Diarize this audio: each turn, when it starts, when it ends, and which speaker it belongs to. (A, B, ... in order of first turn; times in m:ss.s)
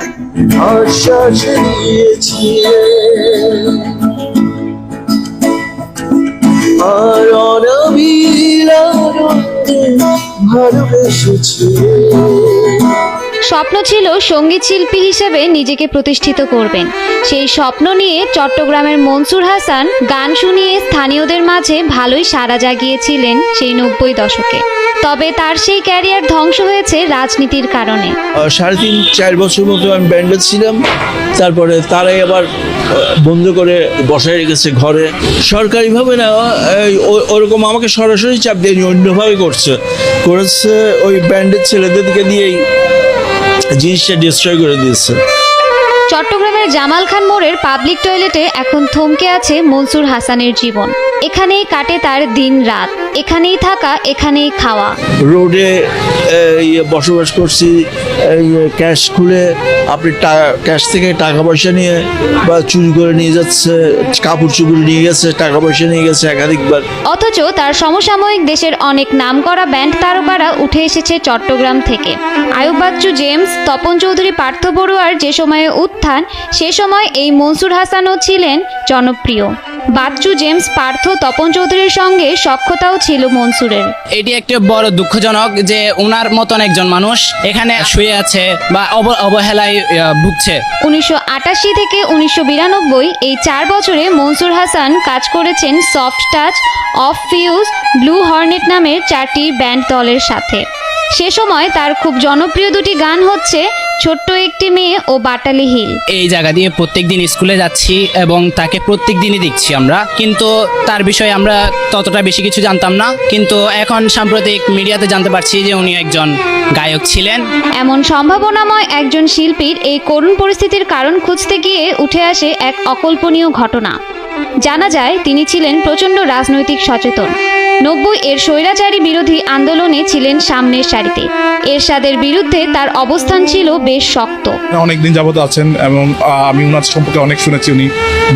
0:00.4-0:05.4 A
0:06.1-0:13.0 A
0:13.5-0:28.2 B
0:28.5-0:30.8 A
0:31.4-0:42.6 A
0:43.8-0:45.2 A
0:46.1-0:55.0 B
0:55.3-0:55.7 A
0:56.3-1:06.8 A
1:07.1-1:23.9 B
1:24.1-1:30.6 C
1:30.8-1:40.6 B
1:41.2-1:46.0 B
1:46.1-1:57.4 C
1:57.8-2:04.0 B
2:04.6-2:14.6 B
2:14.7-2:17.9 D